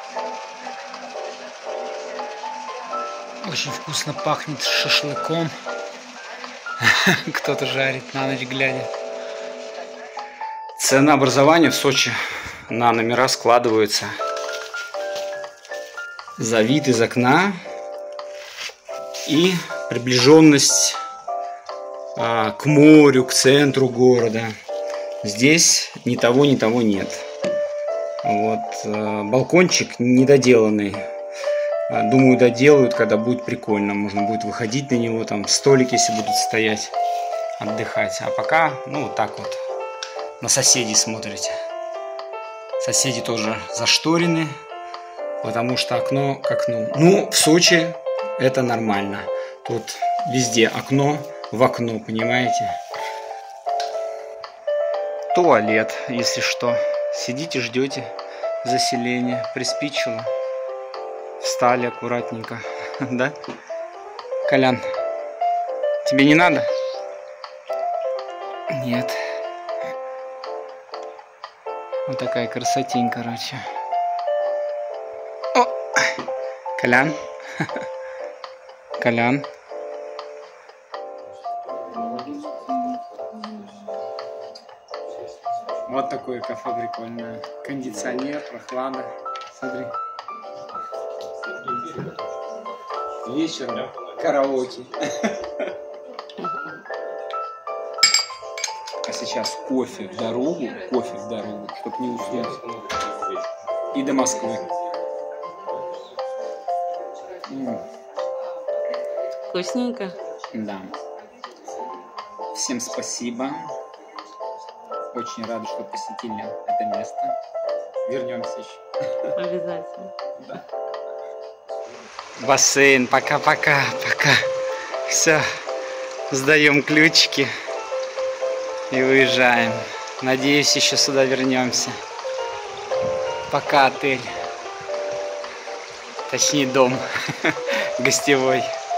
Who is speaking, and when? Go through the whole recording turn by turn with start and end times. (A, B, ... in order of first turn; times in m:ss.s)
0:03.4-0:05.5 A
0:06.8-0:08.9 A
0:10.8-0:12.2 A
0:12.7-0:14.1 A
0:16.4-0:17.6 A
0:19.3-0:21.0 A
0:22.2-0:24.5 A
0:25.2-0:27.2 A
0:28.2-0:31.1 A
0:31.9-0:36.9 A
0:37.6-0:39.6 A
0:40.4-0:41.6 A
0:42.8-0:44.5 A
0:45.4-0:52.7 A
0:55.3-0:58.1 A
0:58.6-1:00.3 A
1:01.4-1:03.4 A
1:04.5-1:04.8 A
1:06.0-1:06.7 A
1:08.7-1:09.2 A
1:12.1-1:13.6 A
1:15.5-1:16.2 A
1:16.8-1:17.7 A
1:19.0-1:19.5 A
1:21.9-1:23.8 B
1:25.9-1:29.9 A
1:31.6-1:32.0 A
1:33.2-1:35.3 A
1:36.4-1:36.7 B
1:39.1-1:42.6 A
1:43.9-1:44.7 A
1:47.5-1:47.8 A
1:49.5-1:50.2 B
1:50.5-1:51.0 A
1:52.5-1:53.7 A
1:55.1-1:57.4 A
1:58.1-1:58.8 A
1:59.4-2:00.1 B
2:02.4-2:04.4 A
2:05.1-2:05.4 A
2:06.3-2:07.5 A
2:08.9-2:12.0 A
2:13.5-2:14.3 A
2:16.3-2:18.7 A